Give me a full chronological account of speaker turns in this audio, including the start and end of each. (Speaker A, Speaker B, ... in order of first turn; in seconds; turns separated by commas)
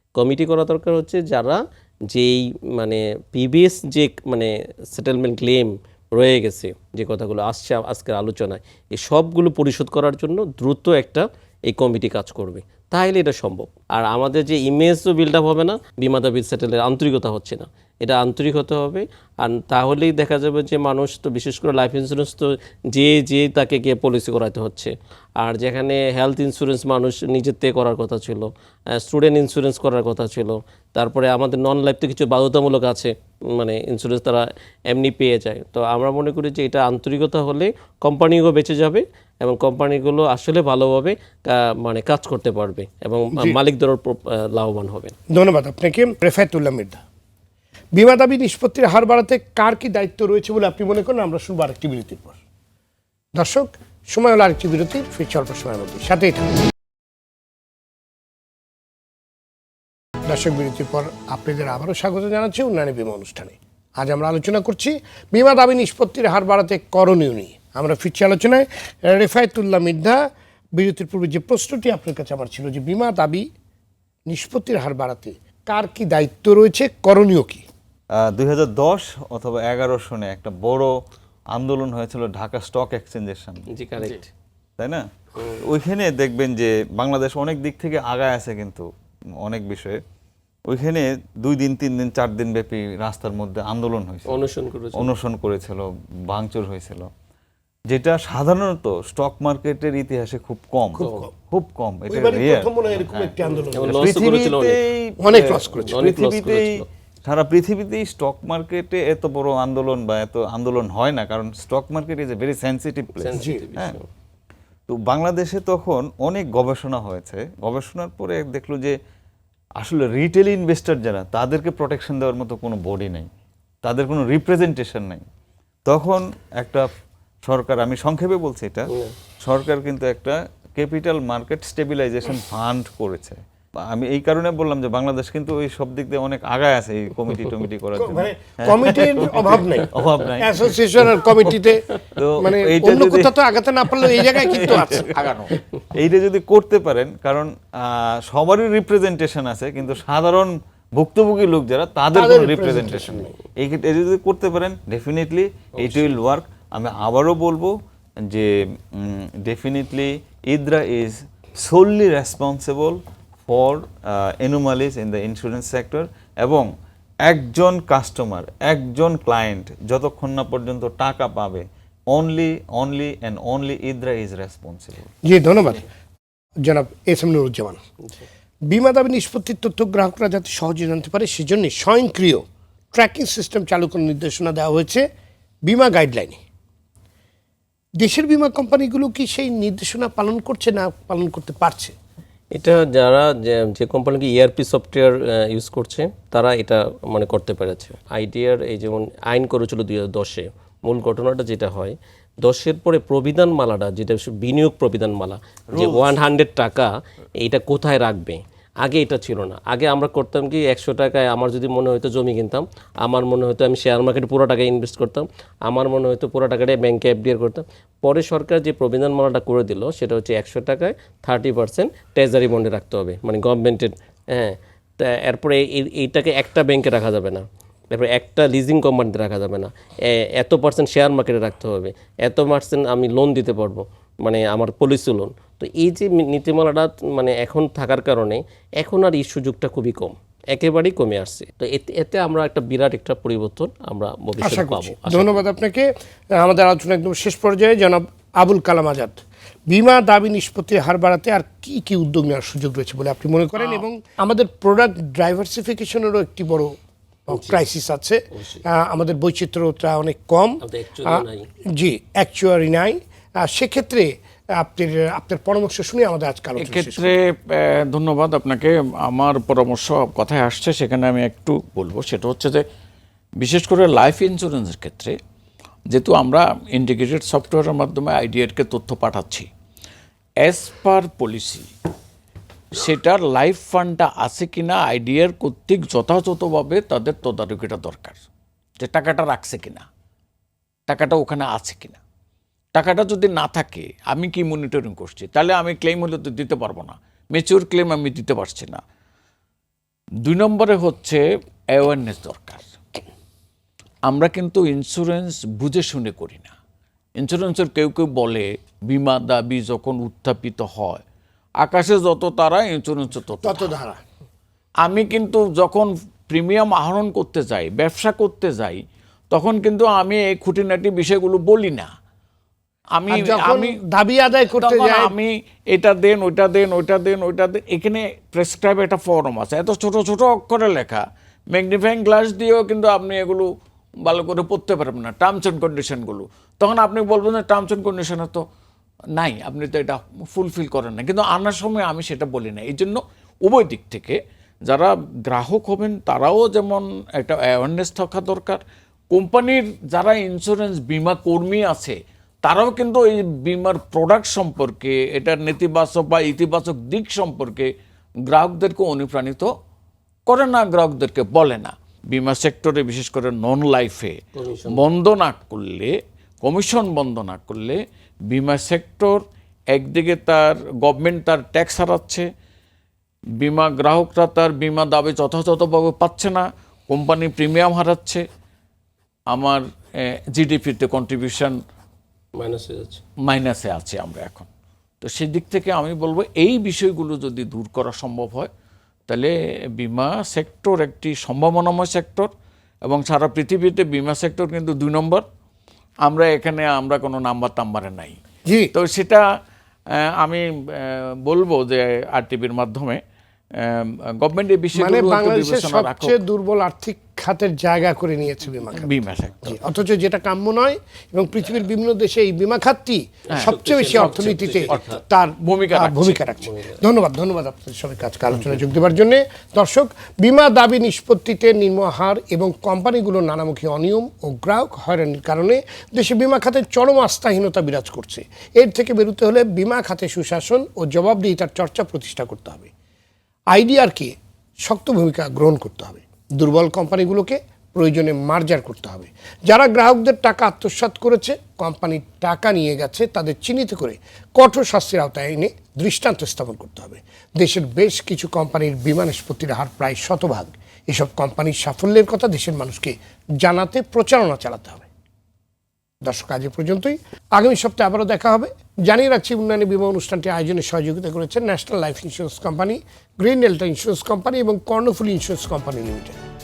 Speaker A: 0.2-45.2, Speaker B: 45.3-47.0, Speaker B: 48.0-52.4, Speaker B: 53.4-56.7, Speaker B: 60.3-70.2, Speaker B: 70.8-73.5, Speaker B: 74.3-77.7, Speaker C: 78.1-81.0, Speaker C: 81.5-83.7, Speaker A: 83.7-84.3, Speaker C: 84.8-88.9, Speaker C: 89.4-90.0, Speaker C: 90.7-94.4, Speaker A: 94.3-95.1, Speaker C: 95.0-97.1, Speaker C: 97.9-114.0, Speaker B: 101.0-101.3, Speaker A: 101.0-101.3, Speaker B: 102.1-104.1, Speaker A: 103.8-104.8, Speaker B: 105.2-106.0, Speaker A: 105.9-106.9, Speaker A: 113.2-114.0, Speaker B: 113.4-113.6, Speaker C: 114.9-119.0, Speaker C: 119.8-123.3, Speaker C: 123.8-125.2, Speaker C: 125.9-126.9, Speaker C: 127.5-140.7, Speaker B: 138.0-145.2, Speaker C: 142.2-143.3, Speaker C: 144.7-145.0, Speaker D: 144.7-145.6, Speaker C: 145.9-157.8, Speaker B: 152.1-153.3, Speaker A: 155.8-156.1, Speaker C: 158.3-166.7, Speaker C: 167.2-175.1, Speaker B: 175.2-175.9, Speaker B: 176.6-177.8, Speaker B: 178.7-185.1, Speaker B: 185.7-186.4, Speaker B: 188.0-191.9, Speaker A: 192.6-206.9, Speaker C: 205.7-206.1, Speaker A: 207.4-245.4, Speaker B: 244.4-267.2, Speaker A: 257.3-257.6, Speaker A: 258.3-258.6, Speaker A: 260.6-261.5, Speaker D: 266.6-272.6, Speaker D: 273.4-275.2, Speaker D: 275.9-279.5, Speaker D: 280.4-281.7, Speaker D: 282.7-288.2, Speaker D: 288.8-289.9, Speaker D: 290.9-292.0, Speaker D: 292.8-298.8, Speaker D: 300.2-302.8, Speaker D: 304.1-306.5, Speaker D: 307.2-311.0, Speaker D: 311.6-313.7, Speaker B: 313.4-314.0, Speaker D: 314.8-321.9, Speaker D: 323.0-323.8, Speaker B: 323.1-325.1, Speaker D: 324.5-333.5, Speaker D: 334.0-338.4, Speaker D: 339.2-357.7, Speaker D: 358.3-359.5, Speaker D: 360.3-372.3, Speaker A: 364.4-364.8, Speaker D: 373.4-378.2, Speaker D: 379.3-381.6, Speaker A: 382.4-383.0, Speaker D: 383.3-384.5, Speaker D: 385.0-388.5, Speaker D: 389.1-392.3, Speaker D: 392.9-395.2, Speaker D: 396.1-398.2, Speaker B: 398.5-398.7, Speaker D: 398.7-399.2, Speaker D: 399.9-403.0, Speaker D: 403.6-406.2, Speaker B: 404.8-432.7, Speaker D: 408.7-409.6, Speaker A: 413.3-415.0, Speaker D: 413.3-416.2, Speaker A: 416.5-416.8, Speaker D: 418.3-418.6, Speaker B: 433.5-454.9, Speaker B: 456.0-466.2